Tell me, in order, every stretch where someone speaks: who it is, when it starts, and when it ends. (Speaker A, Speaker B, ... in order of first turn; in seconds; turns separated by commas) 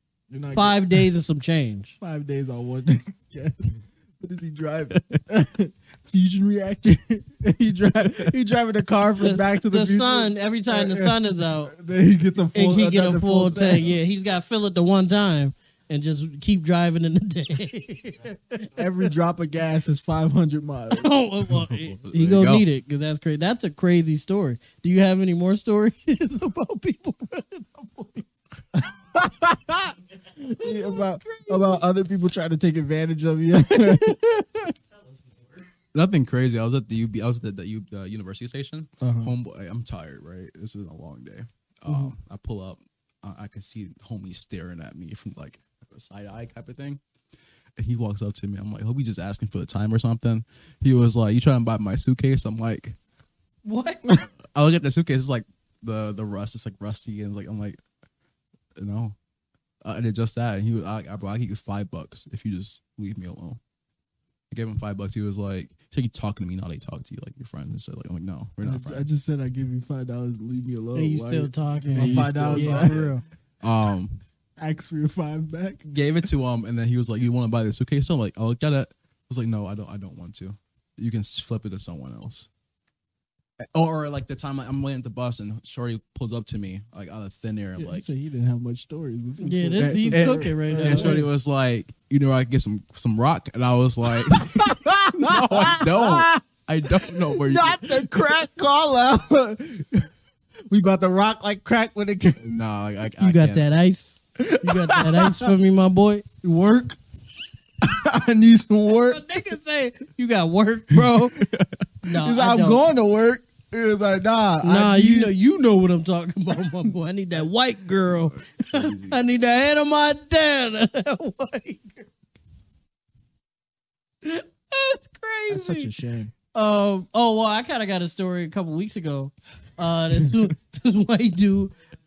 Speaker A: 0.3-1.0, Speaker B: 0.5-2.0, Speaker A: 2.0-13.9, Speaker B: 9.2-11.7, Speaker B: 12.5-18.8, Speaker A: 18.8-21.1, Speaker B: 20.9-28.3, Speaker C: 21.5-22.7, Speaker A: 28.8-34.4, Speaker B: 30.6-31.8, Speaker B: 33.6-34.5, Speaker C: 35.9-47.0, Speaker A: 39.0-39.3, Speaker C: 47.8-53.0, Speaker B: 53.6-54.0, Speaker C: 54.5-57.8, Speaker C: 58.8-59.2, Speaker C: 59.8-63.6, Speaker C: 64.5-69.1, Speaker A: 68.6-73.1, Speaker B: 71.0-73.2, Speaker C: 71.9-73.1, Speaker C: 73.6-74.2, Speaker A: 74.6-75.8, Speaker C: 75.9-82.5, Speaker C: 83.7-88.1, Speaker A: 87.8-91.3, Speaker B: 89.4-91.3, Speaker C: 89.8-98.3, Speaker A: 94.2-100.1, Speaker A: 100.7-102.6, Speaker C: 102.4-103.7, Speaker B: 103.2-106.2, Speaker A: 104.4-105.5, Speaker A: 106.4-107.0, Speaker A: 107.8-109.2, Speaker B: 108.9-111.4, Speaker C: 111.3-111.8, Speaker B: 112.0-112.8, Speaker A: 112.2-115.3, Speaker B: 114.6-122.1, Speaker C: 118.5-119.2, Speaker B: 124.2-125.9, Speaker A: 125.5-126.3, Speaker B: 126.5-131.7